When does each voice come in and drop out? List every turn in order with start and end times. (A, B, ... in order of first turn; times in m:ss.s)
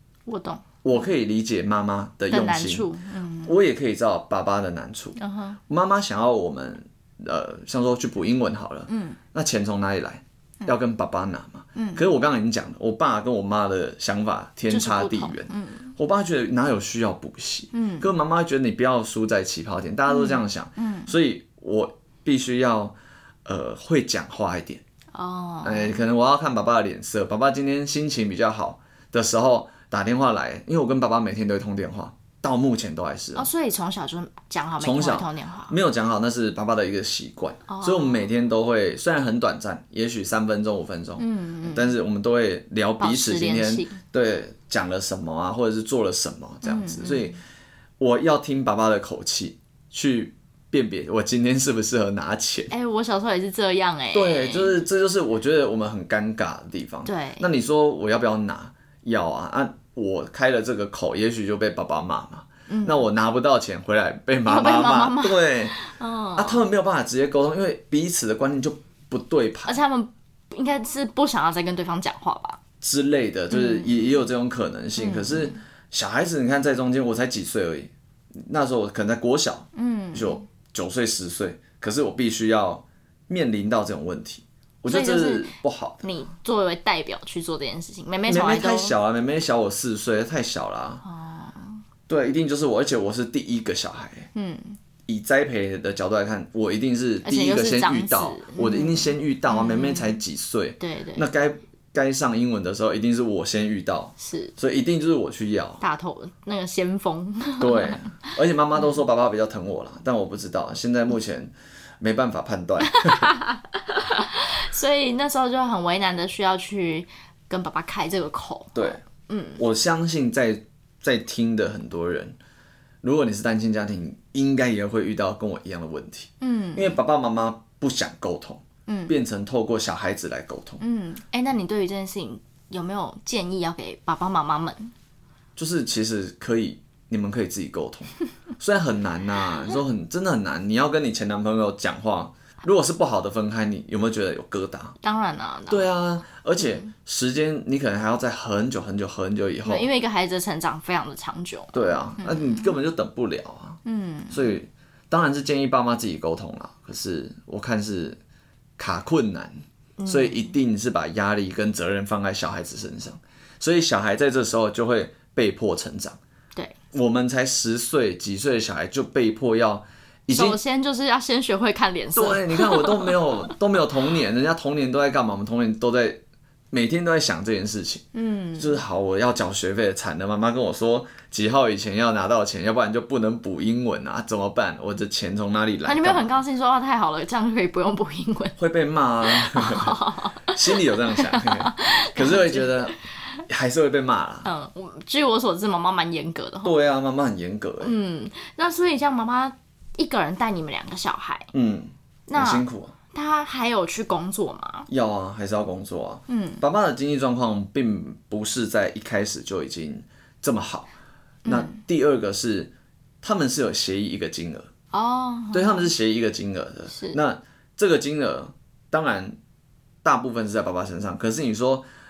0:00.3-0:00.7 A
0:00.8-0:02.9 B
0:02.3-0:03.6 A
0:03.4-0:05.2 B
0:05.2-0:05.6 A
0:05.7-0:24.8 B
0:08.9-0:09.2 A
0:11.7-0:12.0 A
0:14.7-0:15.9 A
0:17.7-0:18.1 A
0:20.1-0:21.1 A
0:25.1-0:26.0 A
0:25.6-0:33.5 B
0:33.3-0:35.8 A
0:34.8-0:47.4 B
0:37.7-0:38.2 A
0:41.2-0:41.9 A
0:43.0-0:44.0 A
0:46.6-0:47.4 A
0:48.0-0:52.7 B
0:52.7-0:54.8 A
0:54.1-1:05.8 B
0:57.0-0:57.5 A
1:02.7-1:03.1 A
1:04.4-1:06.6 A
1:06.4-1:09.8 B
1:09.6-1:12.6 A
1:12.8-1:26.2 B
1:13.5-1:14.1 A
1:15.0-1:15.6 A
1:19.7-1:20.4 A
1:24.9-1:28.9 A
1:28.3-1:31.0 B
1:31.0-1:31.8 A
1:32.1-1:34.3 B
1:34.3-1:34.8 A
1:35.1-1:45.8 B
1:37.2-1:40.2 A
1:40.8-1:41.3 A
1:44.2-1:44.5 A
1:45.8-1:48.2 A
1:47.6-1:53.3 B
1:52.8-1:59.6 A
1:58.7-1:59.0 B
1:59.6-2:02.4 B
2:03.0-2:10.8 B
2:06.4-2:07.0 A
2:08.9-2:09.2 A
2:10.8-2:14.9 A
2:15.6-2:25.0 B
2:25.0-2:25.9 A
2:25.7-2:29.9 B
2:26.6-2:26.9 A
2:29.6-2:32.7 A
2:31.7-2:33.8 B
2:33.8-2:34.5 A
2:34.3-2:38.2 B
2:38.8-2:46.2 B
2:40.0-2:40.5 A
2:46.9-2:50.6 B
2:50.3-2:53.5 A
2:52.1-2:56.2 B
2:56.7-2:58.0 B
2:58.1-2:58.8 A
2:58.6-3:06.4 B
3:05.8-3:08.6 A
3:08.6-3:13.0 B
3:09.2-3:12.9 A
3:13.5-3:14.5 B
3:14.4-3:16.7 A
3:16.6-3:17.9 B
3:17.8-3:21.5 A
3:21.5-3:22.9 B
3:22.3-3:24.9 A
3:24.9-3:30.9 B
3:26.3-3:26.6 A
3:31.4-3:31.8 A
3:31.4-3:34.7 B
3:34.9-3:35.9 A
3:35.5-3:39.4 B
3:36.9-3:37.2 A
3:40.0-3:41.8 B